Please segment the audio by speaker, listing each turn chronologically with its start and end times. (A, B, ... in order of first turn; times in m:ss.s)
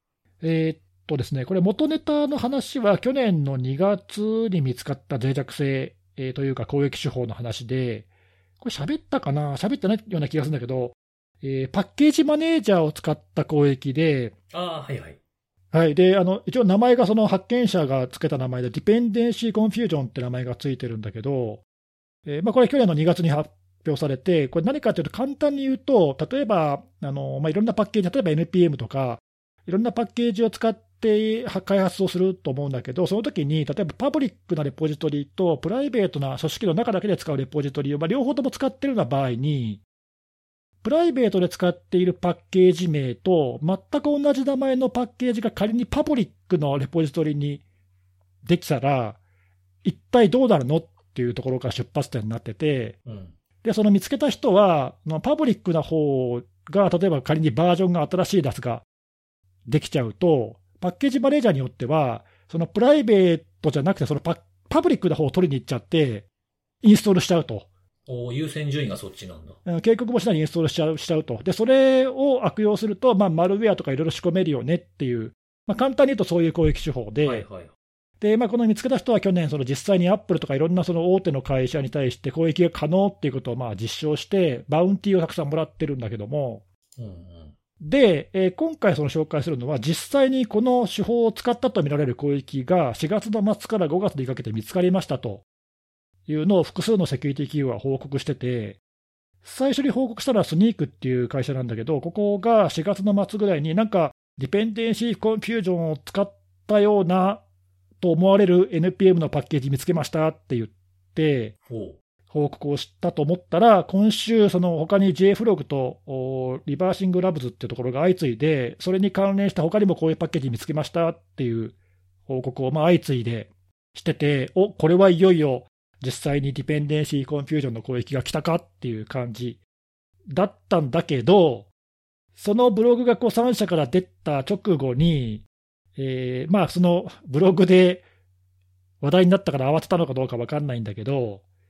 0:00.4-0:08.1 A
0:08.6-0:14.3 A
0:14.5-0:15.2 B
0:15.7-0:21.6 A
0:22.3-0:39.8 A
0:40.8-0:47.6 A
0:48.4-0:49.2 A
0:49.8-0:53.0 A
0:53.1-0:53.3 B
0:53.6-0:58.8 A
0:59.7-1:06.3 A
1:06.8-1:07.7 A
1:08.1-1:09.6 B
1:09.7-1:17.5 A
1:17.2-1:17.7 B
1:18.2-1:26.6 A
1:27.0-1:27.5 B
1:27.8-1:35.4 A
1:36.3-1:38.8 A
1:39.4-1:47.4 A
1:48.0-1:51.6 A
1:51.7-1:52.0 B
1:52.3-2:01.8 A
2:02.3-2:09.6 A
2:10.3-2:11.7 A
2:12.4-2:15.4 A
2:16.0-2:18.0 A
2:19.0-2:21.4 A